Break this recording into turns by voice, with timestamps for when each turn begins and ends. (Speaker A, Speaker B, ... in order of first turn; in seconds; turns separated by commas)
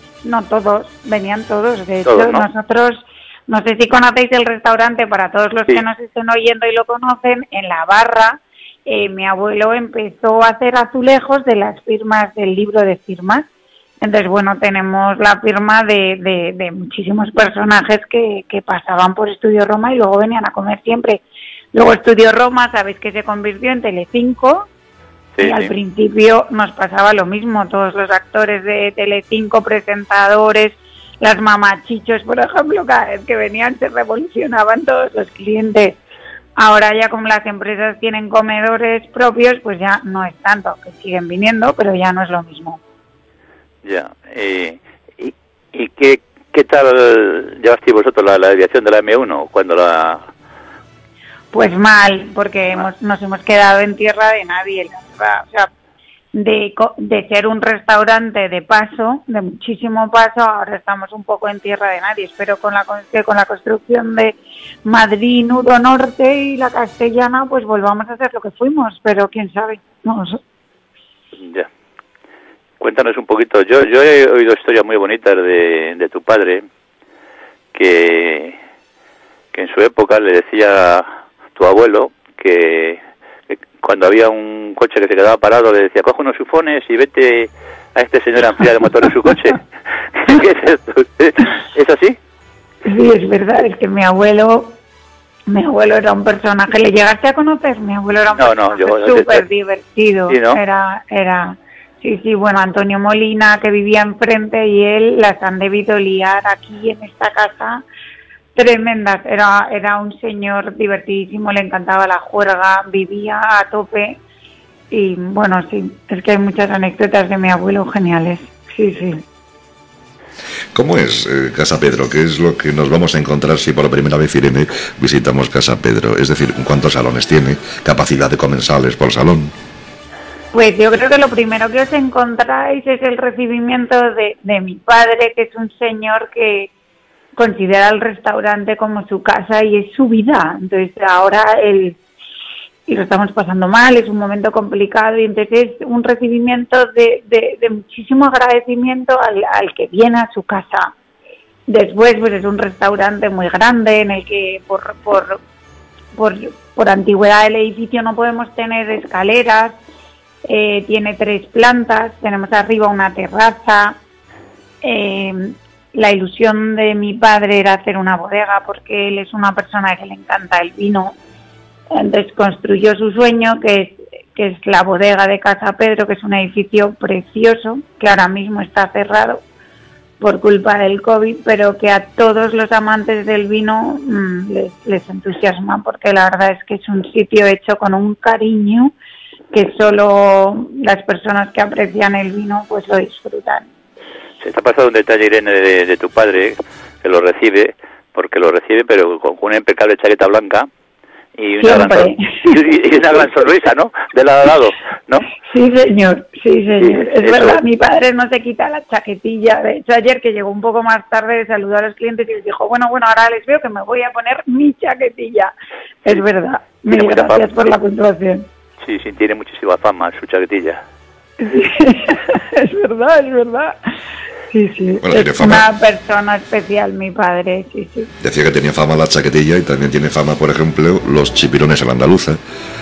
Speaker A: 0.2-13.5, Speaker B: 2.1-2.5, Speaker A: 14.0-24.7, Speaker B: 25.4-25.7, Speaker A: 25.4-36.0, Speaker A: 36.6-42.8, Speaker B: 43.8-50.3, Speaker A: 51.5-55.7, Speaker A: 56.3-70.4, Speaker B: 71.4-71.7, Speaker B: 72.8-76.7, Speaker B: 77.7-78.6, Speaker B: 79.5-92.2, Speaker A: 92.8-94.8, Speaker A: 95.5-107.8, Speaker B: 98.4-99.5, Speaker B: 100.3-100.6, Speaker A: 108.5-114.2, Speaker A: 114.9-119.2, Speaker C: 120.8-129.5, Speaker A: 130.5-136.7, Speaker A: 137.4-142.0, Speaker A: 142.9-150.9, Speaker A: 151.7-155.4, Speaker A: 156.1-159.8, Speaker A: 160.5-164.0, Speaker A: 164.8-171.2, Speaker A: 171.9-179.4, Speaker A: 180.2-188.9, Speaker A: 189.5-193.7, Speaker B: 194.4-200.7, Speaker B: 201.4-205.3, Speaker A: 201.6-202.6, Speaker A: 205.4-215.5, Speaker B: 206.8-207.6, Speaker A: 216.0-218.5, Speaker B: 216.9-217.5, Speaker B: 218.8-220.8, Speaker A: 221.4-223.8, Speaker A: 224.5-228.1, Speaker C: 225.0-225.7, Speaker C: 228.2-232.4